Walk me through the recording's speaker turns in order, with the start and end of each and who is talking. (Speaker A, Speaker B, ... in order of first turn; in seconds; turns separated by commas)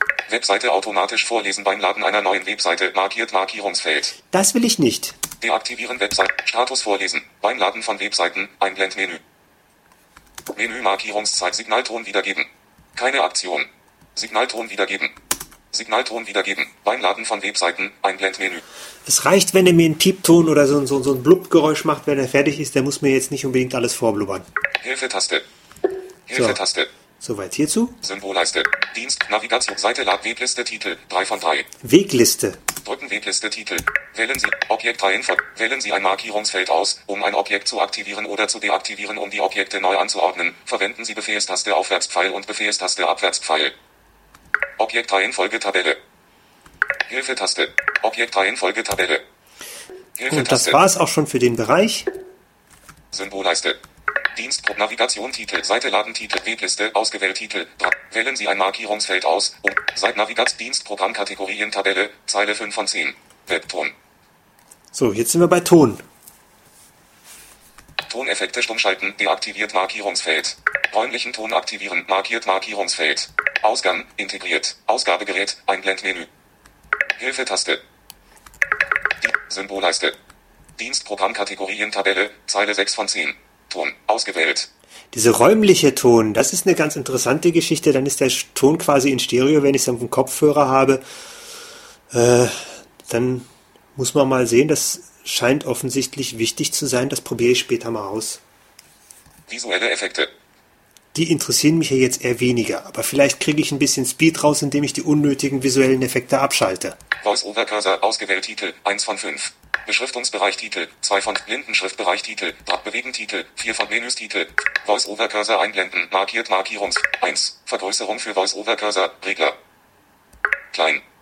Speaker A: 0.3-4.2, Speaker B: 4.3-5.2, Speaker A: 5.4-9.2, Speaker A: 10.5-15.2, Speaker A: 15.7-18.6, Speaker B: 19.1-24.4, Speaker A: 24.8-25.4, Speaker A: 26.3-26.9, Speaker B: 27.2-28.0, Speaker A: 28.0-31.6, Speaker B: 31.8-32.6, Speaker A: 32.8-43.7, Speaker A: 44.8-46.0, Speaker A: 47.1-49.2, Speaker A: 50.2-50.8, Speaker B: 50.3-52.1, Speaker A: 53.1-53.8, Speaker A: 54.3-63.9, Speaker B: 64.9-66.0, Speaker A: 68.0-76.3, Speaker A: 77.2-77.8, Speaker A: 79.2-80.2, Speaker A: 80.8-84.7, Speaker B: 85.1-91.0, Speaker B: 92.1-98.4, Speaker A: 99.5-100.3, Speaker B: 101.1-107.0, Speaker A: 107.2-119.6, Speaker A: 120.7-121.0